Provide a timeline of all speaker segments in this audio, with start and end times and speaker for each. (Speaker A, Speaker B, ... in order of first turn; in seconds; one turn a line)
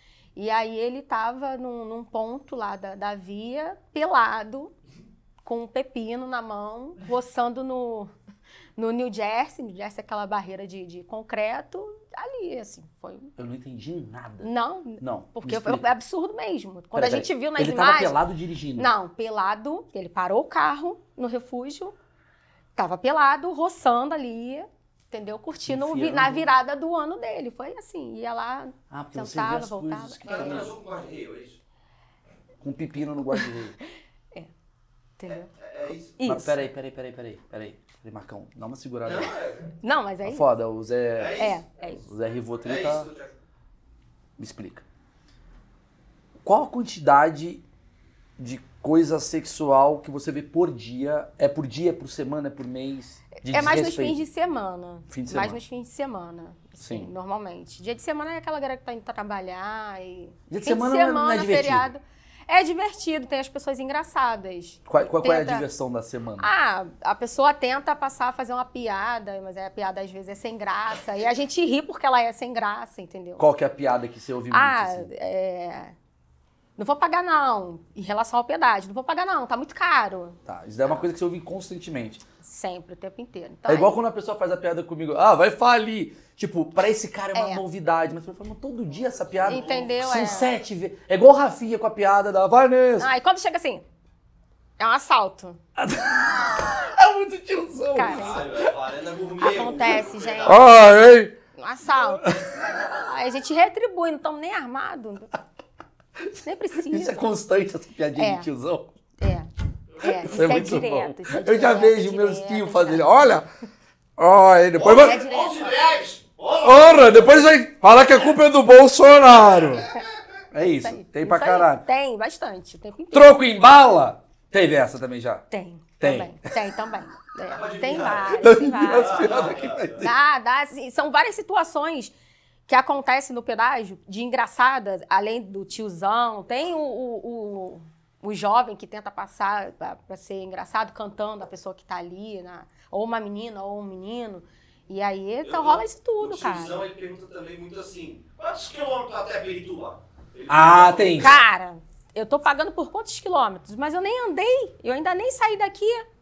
Speaker A: 0.3-4.7
Speaker A: 5.4-8.1
Speaker A: 8.8-13.3
Speaker B: 13.4-15.8
Speaker A: 14.4-18.2
Speaker B: 16.9-18.9
Speaker A: 18.8-21.9
Speaker A: 22.8-30.7
Speaker B: 25.6-26.4
Speaker B: 28.9-30.7
Speaker C: 30.3-31.6
Speaker B: 32.6-33.8
Speaker A: 35.2-35.5
Speaker C: 35.3-36.2
Speaker A: 36.2-36.7
Speaker B: 36.2-39.3
Speaker C: 39.0-39.7
Speaker A: 39.8-40.5
Speaker B: 40.2-41.4
Speaker C: 41.2-41.6
Speaker A: 41.4-42.0
Speaker B: 42.0-43.1
Speaker C: 42.6-43.3
Speaker B: 44.4-44.8
Speaker B: 46.4-47.6
Speaker B: 48.4-54.2
Speaker A: 53.4-65.7
Speaker B: 55.1-55.6
Speaker B: 56.8-57.1
Speaker B: 60.5-61.9
Speaker B: 64.8-66.5
Speaker A: 66.4-73.4
Speaker B: 73.4-75.1
Speaker A: 74.5-76.0
Speaker A: 76.8-80.4
Speaker B: 80.4-82.2
Speaker A: 82.4-83.9
Speaker B: 83.7-93.1
Speaker A: 87.3-87.6
Speaker C: 89.4-90.0
Speaker A: 89.5-90.5
Speaker A: 93.0-93.8
Speaker A: 94.8-95.6
Speaker B: 95.8-98.7
Speaker A: 97.9-98.4
Speaker C: 98.1-100.7
Speaker A: 99.4-100.7
Speaker B: 100.5-101.3
Speaker A: 101.5-105.3
Speaker B: 102.2-102.5
Speaker B: 106.3-108.9
Speaker A: 106.4-107.3
Speaker A: 108.2-108.5
Speaker A: 109.2-113.4
Speaker B: 110.0-113.5
Speaker B: 114.2-115.2
Speaker C: 114.8-117.3
Speaker A: 114.9-115.7
Speaker B: 116.6-119.9
Speaker B: 120.5-121.8
Speaker A: 120.7-123.4
Speaker B: 123.1-125.5
Speaker A: 125.5-129.4
Speaker B: 126.0-126.3
Speaker C: 127.5-130.0
Speaker B: 128.4-130.1
Speaker A: 130.0-132.1
Speaker A: 132.7-146.8
Speaker C: 145.4-151.4
Speaker B: 150.5-151.4
Speaker A: 151.2-156.0